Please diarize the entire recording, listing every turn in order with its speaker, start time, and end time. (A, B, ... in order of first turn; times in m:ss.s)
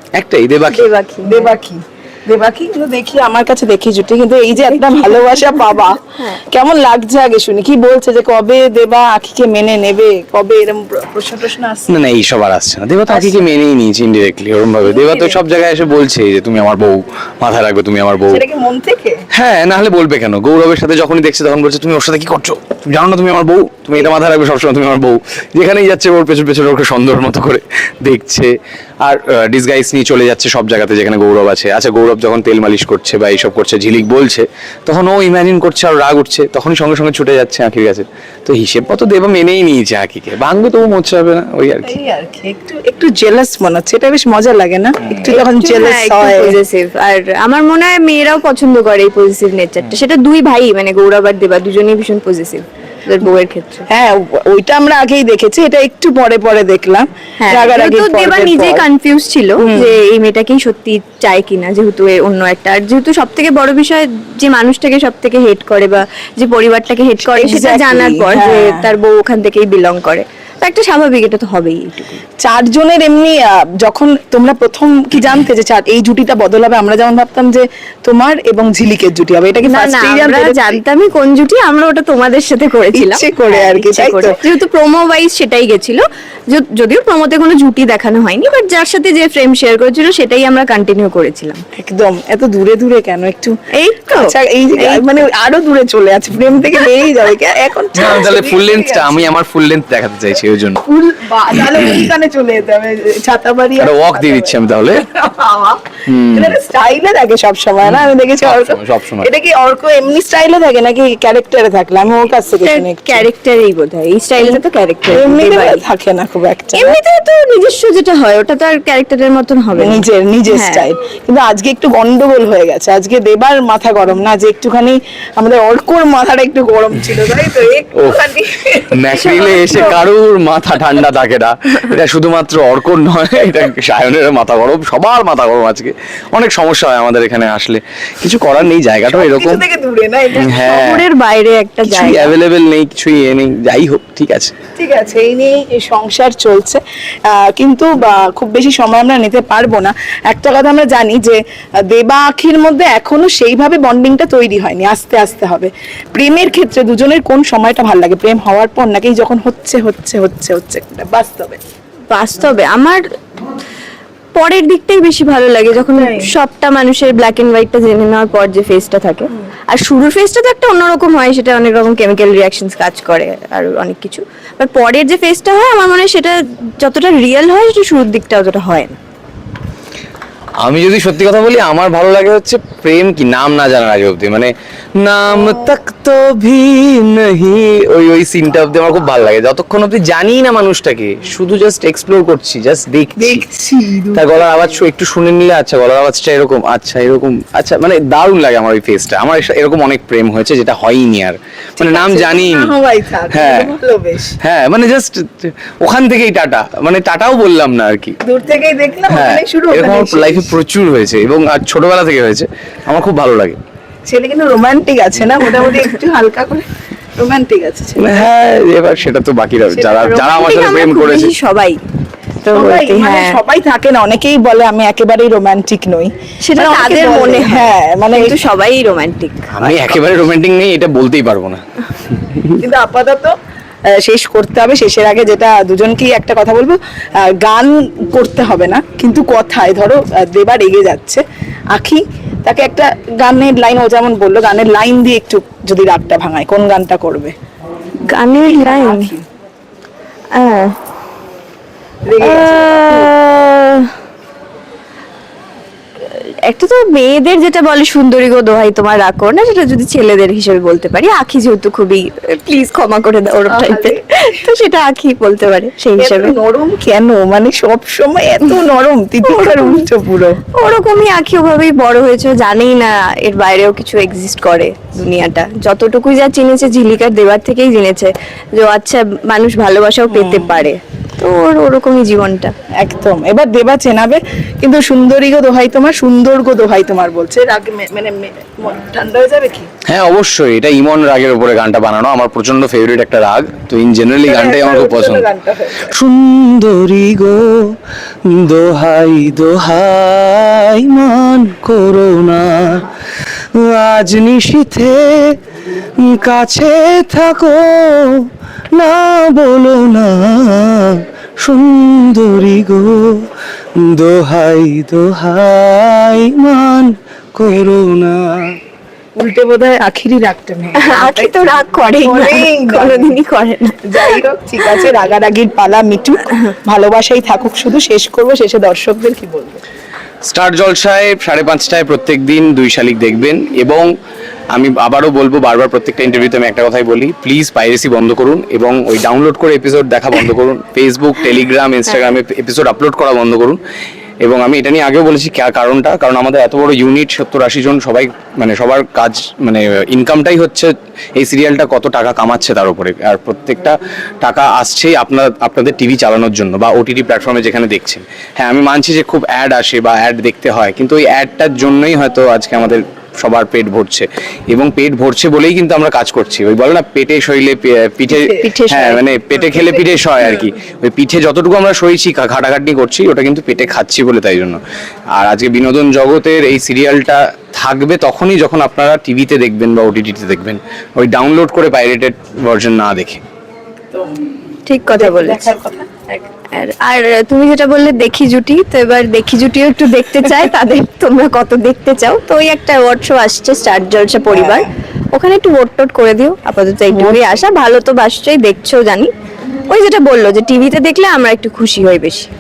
0:00.2-0:00.9 A
0:00.7-0:01.5 B
0:01.2-0:06.0 C
0:04.7-0:05.4 B
0:06.5-0:12.0 C
0:11.9-0:18.4 A
0:13.1-0:13.5 C
0:14.8-0:15.4 C
0:18.3-0:19.2 C
0:19.3-0:42.0 A
0:41.8-0:46.6 C
0:45.3-0:53.9 B
0:53.9-0:58.8 C
0:57.4-1:12.2 B
0:59.6-0:59.9 C
1:07.2-1:08.9 C
1:12.4-1:20.8 C
1:19.6-1:31.6 B
1:22.9-1:24.4 C
1:31.8-1:33.5 C
1:33.7-1:35.1 B
1:34.1-1:39.3 C
1:38.0-1:40.8 A
1:40.8-1:53.3 C
1:41.8-1:42.0 A
1:43.8-1:45.0 A
1:46.1-1:46.6 A
1:47.8-1:49.3 A
1:52.6-1:55.8 B
1:54.4-1:57.0 C
1:56.7-2:00.9 B
1:59.8-2:10.0 C
2:08.9-2:19.6 A
2:19.1-2:20.7 C
2:20.3-2:21.0 A
2:20.6-2:22.3 B
2:21.8-2:24.5 A
2:24.8-2:41.6 C
2:42.1-2:43.0 B
2:44.3-2:59.0 B
2:45.9-2:46.3 C
3:00.6-3:13.4 A
3:05.3-3:05.8 C
3:13.2-3:14.6 C
3:14.1-3:22.7 A
3:21.8-3:24.4 C
3:23.3-3:23.7 A
3:24.4-3:28.2 A
3:28.2-3:30.5 C
3:29.1-3:33.6 A
3:34.1-3:38.3 C
3:38.0-3:41.3 A
3:39.7-3:40.1 C
3:40.0-3:41.8 B
3:42.4-3:43.4 B
3:42.5-3:48.4 C
3:46.4-3:49.5 B
3:49.5-3:51.6 A
3:49.7-3:50.0 C
3:52.1-3:52.6 A
3:52.6-3:53.3 C
3:54.0-4:07.3 C
4:08.1-4:09.1 B
4:08.5-4:09.2 C
4:10.3-4:10.7 B
4:12.0-4:13.1 C
4:12.2-4:13.9 B
4:16.0-4:26.4 B
4:23.5-4:24.0 C
4:26.0-4:30.4 C
4:29.2-4:29.9 B
4:30.6-4:42.5 B
4:40.1-4:40.6 C
4:42.8-4:49.7 C
4:49.9-4:55.2 A
4:54.2-4:55.9 C
4:55.9-5:02.8 A
5:03.6-5:05.4 A
5:06.0-5:18.6 A
5:19.2-5:23.2 C
5:20.8-5:24.9 B
5:23.9-5:29.6 C
5:30.2-5:33.9 A
5:34.5-5:43.6 A
5:41.9-5:42.2 B
5:44.2-6:14.6 A
6:08.1-6:08.5 C
6:08.4-6:09.1 B
6:09.6-6:09.8 C
6:15.2-6:23.2 A
6:24.7-6:25.5 B
6:24.9-6:25.9 C
6:26.1-6:39.1 B
6:34.3-6:34.7 C
6:36.9-6:37.2 C
6:39.7-6:42.3 B